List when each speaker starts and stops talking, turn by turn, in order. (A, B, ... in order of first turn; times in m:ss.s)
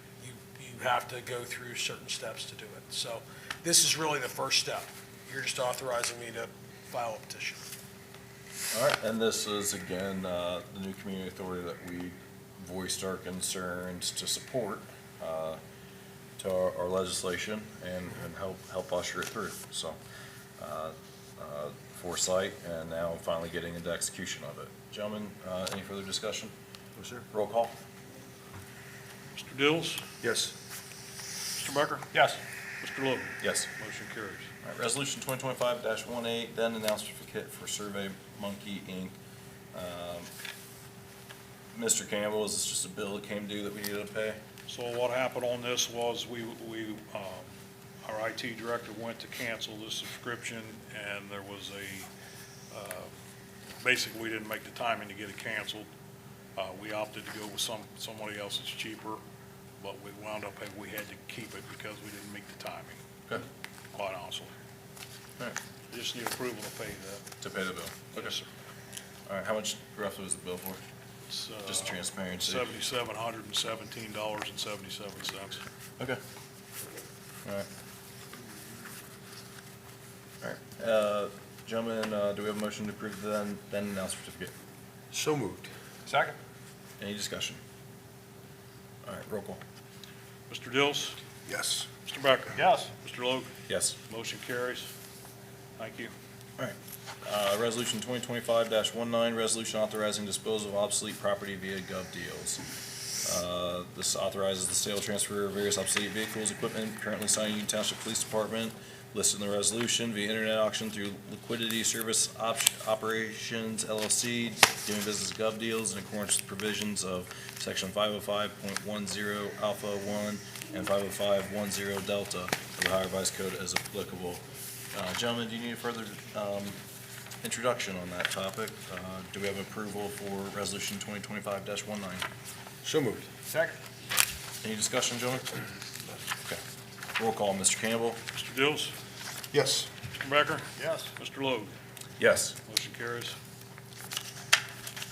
0:00.2-0:07.6 A
0:08.7-0:15.6 B
0:16.4-0:20.0 B
0:20.6-0:26.5 B
0:27.0-0:27.2 C
0:27.3-0:27.8 B
0:29.4-0:30.0 D
0:30.2-0:30.5 C
0:31.6-0:32.2 D
0:32.8-0:34.5 D
0:33.4-0:33.7 B
0:34.6-0:39.1 B
0:39.7-0:40.3 B
0:41.7-0:44.4 B
0:44.7-0:47.5 D
0:48.0-0:52.1 D
0:52.7-0:53.1 D
0:53.8-0:55.9 D
0:56.6-0:59.2 D
0:59.8-1:03.0 D
1:03.9-1:04.5 D
1:05.9-1:07.2 D
1:07.4-1:08.3 B
1:08.1-1:08.5 D
1:09.3-1:10.8 B
1:11.3-1:15.6 D
1:11.7-1:12.7 B
1:20.4-1:24.5 B
1:25.1-1:25.7 C
1:26.1-1:26.4 D
1:27.0-1:27.6 B
1:29.0-1:29.6 B
1:30.5-1:31.2 D
1:31.5-1:31.9 C
1:32.0-1:33.5 D
1:33.7-1:34.0 B
1:34.1-1:34.9 D
1:35.8-1:36.1 D
1:36.6-1:42.6 B
1:43.2-2:06.8 B
2:07.4-2:12.2 B
2:12.8-2:13.5 C
2:14.6-2:15.6 B
2:17.2-2:18.2 B
2:18.4-2:18.9 D
2:19.5-2:19.9 C
2:20.2-2:21.7 D
2:22.2-2:22.6 B
2:22.7-2:23.4 D